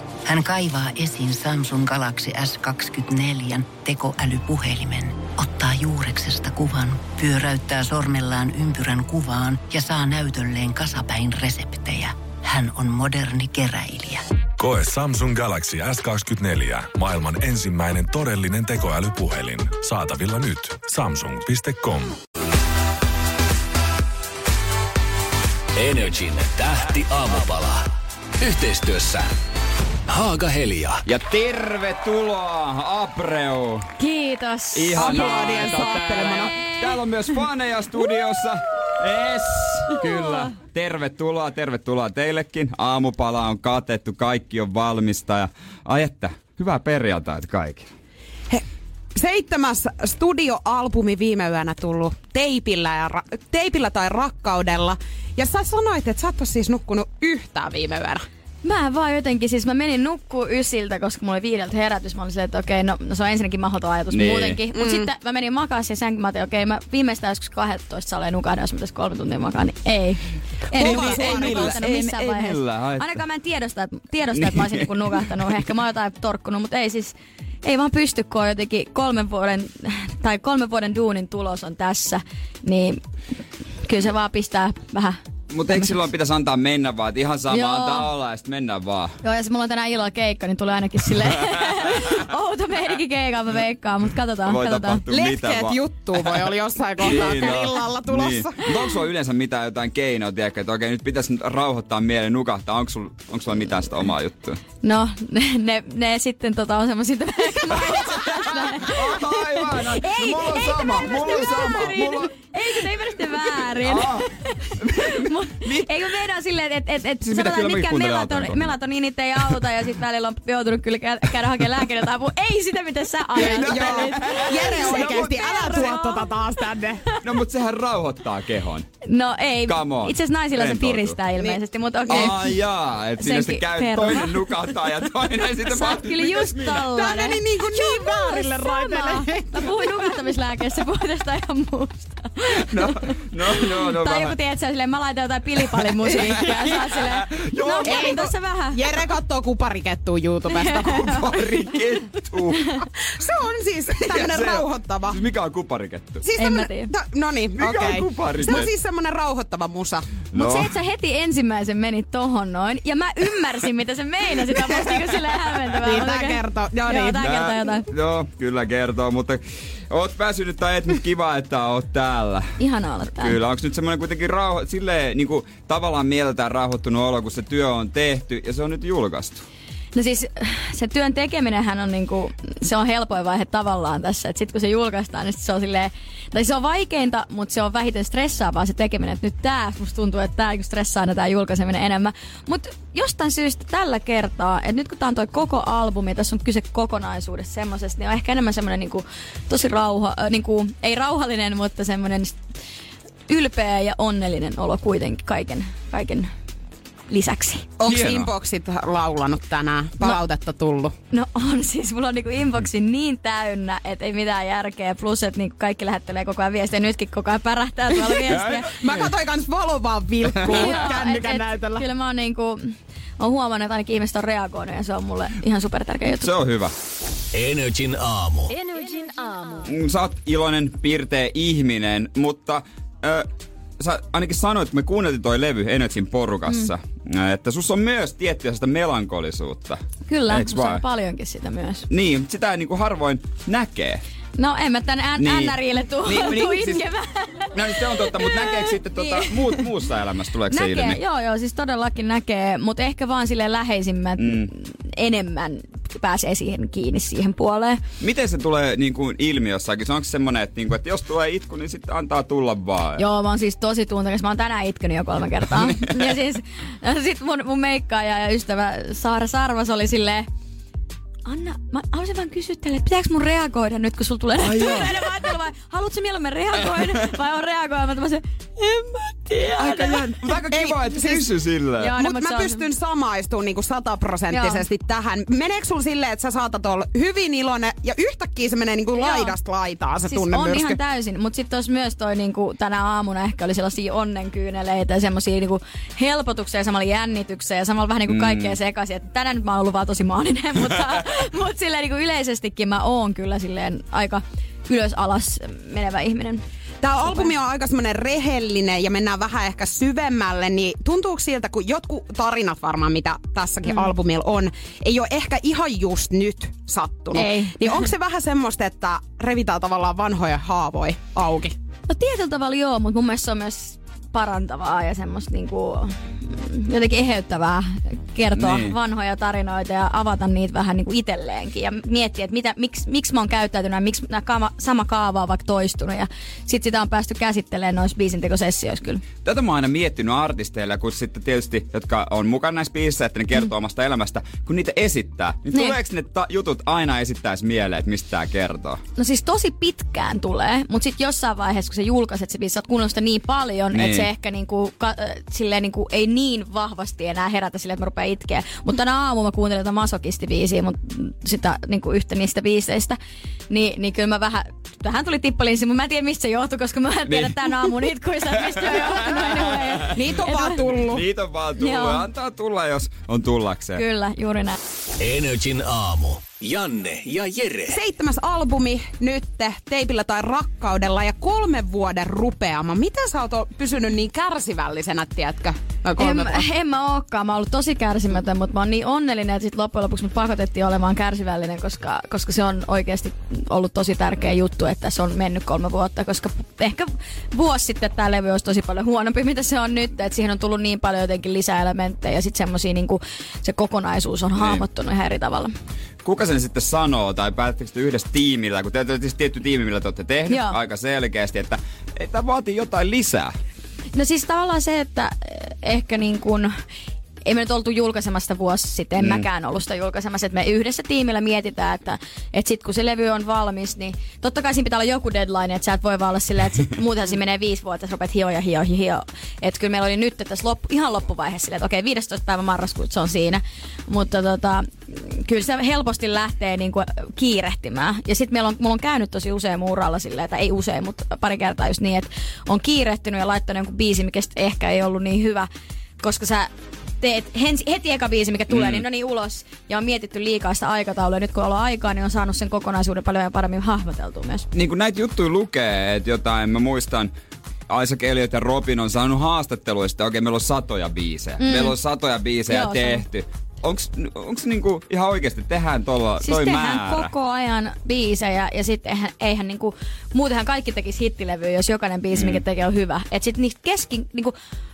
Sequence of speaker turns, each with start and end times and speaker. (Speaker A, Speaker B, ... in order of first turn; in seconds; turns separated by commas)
Speaker A: 0.2-14.2, Speaker B: 14.6-22.2, Speaker C: 25.8-27.9, Speaker C: 28.4-29.3, Speaker C: 30.1-31.0, Speaker D: 31.1-33.9, Speaker E: 34.0-35.6, Speaker D: 34.7-47.9, Speaker F: 35.0-36.5, Speaker F: 48.5-58.2, Speaker E: 58.6-83.0, Speaker D: 64.1-64.6, Speaker F: 64.7-65.1, Speaker D: 70.7-73.2, Speaker F: 70.7-71.8, Speaker D: 74.3-74.9, Speaker E: 83.9-85.2, Speaker D: 85.5-89.2, Speaker E: 85.7-85.9, Speaker E: 87.5-88.1, Speaker E: 89.2-95.1, Speaker D: 91.6-92.2, Speaker D: 94.4-104.6, Speaker F: 95.1-98.7, Speaker E: 104.8-126.5, Speaker D: 108.1-112.3, Speaker D: 113.8-115.9, Speaker D: 117.2-118.8, Speaker D: 123.4-125.8, Speaker F: 123.4-127.0, Speaker D: 127.2-128.9, Speaker E: 129.1-132.5, Speaker D: 129.7-131.2, Speaker D: 132.1-136.8, Speaker E: 133.2-134.5, Speaker E: 135.6-148.9, Speaker F: 136.8-140.1, Speaker D: 142.5-144.3, Speaker D: 146.1-148.3, Speaker F: 147.8-151.2, Speaker E: 150.5-151.3, Speaker D: 151.0-152.7, Speaker E: 152.5-152.8, Speaker F: 153.2-155.2, Speaker D: 154.1-156.2, Speaker F: 156.2-160.2, Speaker E: 156.4-156.9, Speaker D: 157.6-158.7, Speaker D: 160.3-160.7, Speaker E: 160.3-167.9, Speaker F: 165.8-167.4, Speaker D: 167.2-172.6, Speaker E: 172.6-173.4, Speaker D: 173.2-179.4, Speaker E: 179.9-202.4, Speaker E: 203.3-206.3, Speaker E: 207.1-207.7, Speaker F: 207.8-210.9, Speaker D: 207.8-208.3, Speaker E: 211.1-218.8, Speaker D: 218.2-219.1, Speaker F: 218.3-221.8, Speaker D: 220.4-220.8, Speaker E: 220.5-226.3, Speaker D: 226.1-226.7, Speaker C: 227.3-229.6, Speaker D: 229.6-240.8, Speaker E: 240.1-241.9, Speaker D: 241.9-244.0, Speaker E: 244.4-249.7, Speaker D: 245.2-246.8, Speaker D: 247.5-251.0, Speaker E: 250.5-257.8, Speaker D: 254.2-254.5, Speaker D: 258.0-263.0, Speaker E: 263.0-270.3, Speaker D: 265.5-266.1, Speaker E: 271.2-280.1, Speaker D: 274.4-275.3, Speaker D: 279.6-281.9, Speaker F: 280.4-281.2, Speaker E: 281.8-282.6, Speaker F: 281.9-290.8, Speaker E: 284.3-284.6, Speaker E: 288.9-289.3, Speaker E: 290.1-306.4, Speaker D: 298.1-298.5, Speaker F: 306.8-321.5, Speaker E: 317.1-317.9, Speaker E: 321.9-339.0, Speaker D: 328.3-328.8, Speaker D: 339.2-348.8, Speaker E: 349.0-363.0, Speaker D: 353.7-354.1, Speaker E: 363.5-370.7, Speaker D: 367.1-367.5, Speaker D: 368.4-369.9, Speaker F: 369.9-371.0, Speaker D: 370.8-373.8, Speaker E: 371.6-372.0, Speaker E: 373.8-374.6, Speaker C: 375.0-377.8, Speaker F: 377.7-386.4, Speaker E: 386.0-405.5, Speaker D: 404.4-404.6, Speaker D: 406.0-413.3, Speaker E: 410.3-410.6, Speaker E: 413.9-416.5, Speaker E: 417.2-445.5, Speaker D: 419.0-419.2, Speaker E: 446.0-446.5, Speaker E: 447.0-454.5, Speaker D: 448.5-448.8, Speaker D: 454.5-457.1, Speaker D: 457.7-467.1, Speaker E: 461.4-461.8, Speaker E: 462.5-463.0, Speaker E: 466.2-474.3, Speaker D: 472.1-472.4